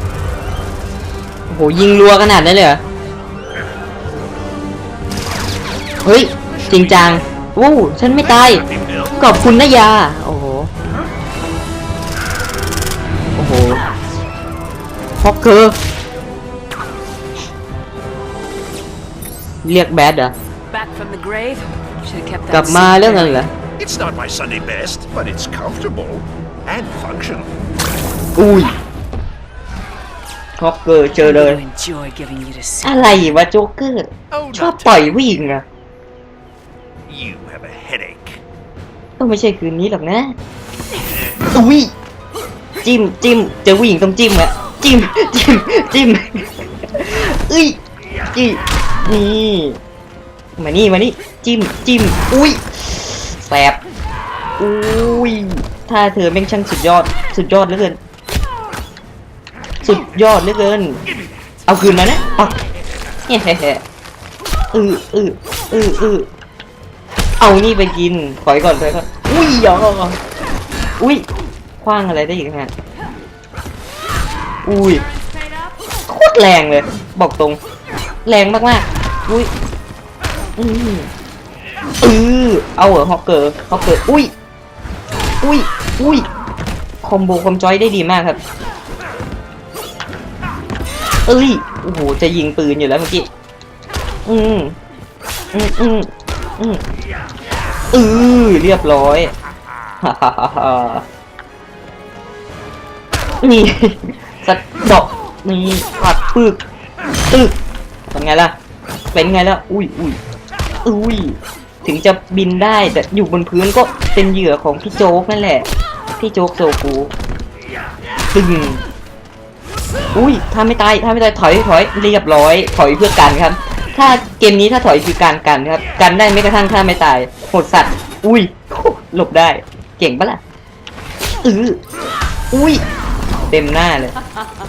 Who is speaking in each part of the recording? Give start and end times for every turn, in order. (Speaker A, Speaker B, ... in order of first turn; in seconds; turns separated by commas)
Speaker A: 1.5-2.8, Speaker A: 6.0-8.6, Speaker B: 6.5-7.2, Speaker B: 8.2-9.3, Speaker A: 9.2-10.7, Speaker A: 13.4-13.8, Speaker A: 15.2-15.8, Speaker A: 19.6-20.3, Speaker C: 20.7-23.5, Speaker A: 22.5-23.5, Speaker B: 23.8-27.5, Speaker A: 28.4-28.8, Speaker A: 30.6-31.6, Speaker C: 31.1-33.2, Speaker A: 32.8-35.6, Speaker B: 34.3-35.2, Speaker B: 37.1-38.4, Speaker A: 39.2-40.4, Speaker A: 41.5-41.9, Speaker A: 42.8-47.8, Speaker A: 48.3-49.8, Speaker A: 50.6-53.8, Speaker A: 54.6-58.0, Speaker A: 59.8-61.0, Speaker A: 61.7-62.5, Speaker A: 63.3-63.8, Speaker A: 64.7-66.3, Speaker A: 67.4-70.2, Speaker A: 71.0-71.3, Speaker A: 71.8-72.7, Speaker A: 74.7-75.0, Speaker A: 76.1-77.6, Speaker A: 78.2-79.5, Speaker A: 80.6-81.1, Speaker A: 82.0-84.3, Speaker A: 85.4-86.3, Speaker A: 87.0-88.4, Speaker A: 91.3-93.3, Speaker A: 94.2-94.8, Speaker A: 95.5-96.8, Speaker A: 97.9-99.3, Speaker A: 100.0-101.0, Speaker A: 103.4-106.6, Speaker A: 107.3-107.6, Speaker A: 108.1-108.5, Speaker A: 109.1-110.2, Speaker A: 110.8-117.1, Speaker A: 118.3-118.8, Speaker A: 120.1-130.4, Speaker A: 131.4-131.8, Speaker A: 132.5-132.8, Speaker A: 133.5-134.2